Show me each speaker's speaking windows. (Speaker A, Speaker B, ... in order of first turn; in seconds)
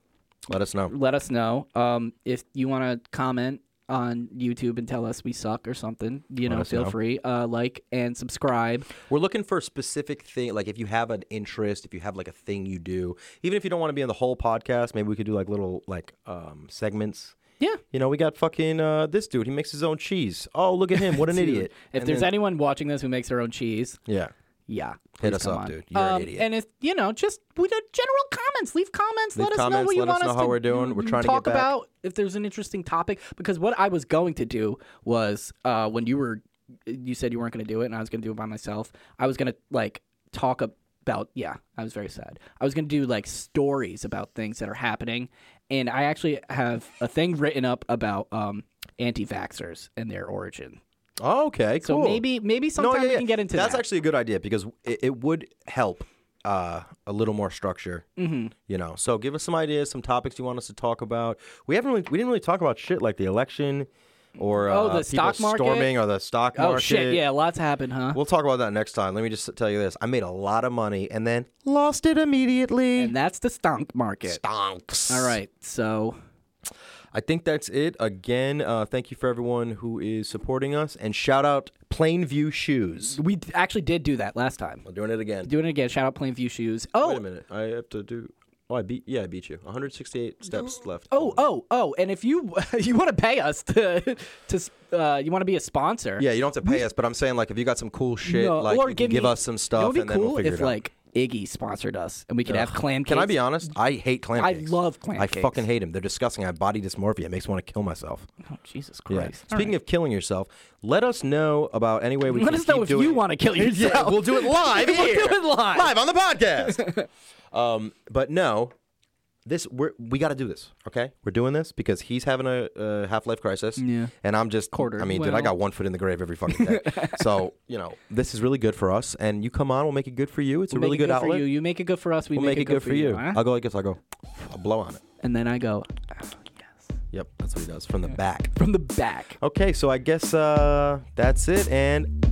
Speaker A: 0.5-0.9, 6.4-7.0, 9.0-17.4, 17.9-22.3, 24.1-24.3, 25.2-26.5, 29.3-31.7, 51.2-52.2, 52.8-58.1, 58.7-67.3, 68.1-73.1, 74.2-75.4, 77.1-83.2, 84.8-85.5, 87.0-91.4, 96.2-100.8, 102.5-108.3, 109.1-116.9, 117.5-118.7, 119.5-131.4, 132.3-135.0, 137.1-138.5, 139.4-142.1
Speaker B: 0.9-8.9, 21.0-24.0, 24.7-50.8, 51.8-53.8, 58.2-58.5, 64.7-65.9, 66.5-68.2, 73.0-74.4, 75.1-76.2, 83.1-84.8, 85.4-87.2, 91.1-96.8, 98.2-103.4, 104.3-105.6, 108.5-109.7, 112.3-115.9, 116.6-117.1, 123.8-124.1, 124.7-125.5, 126.5-127.2, 130.7-133.4, 135.2-136.8, 138.6-139.4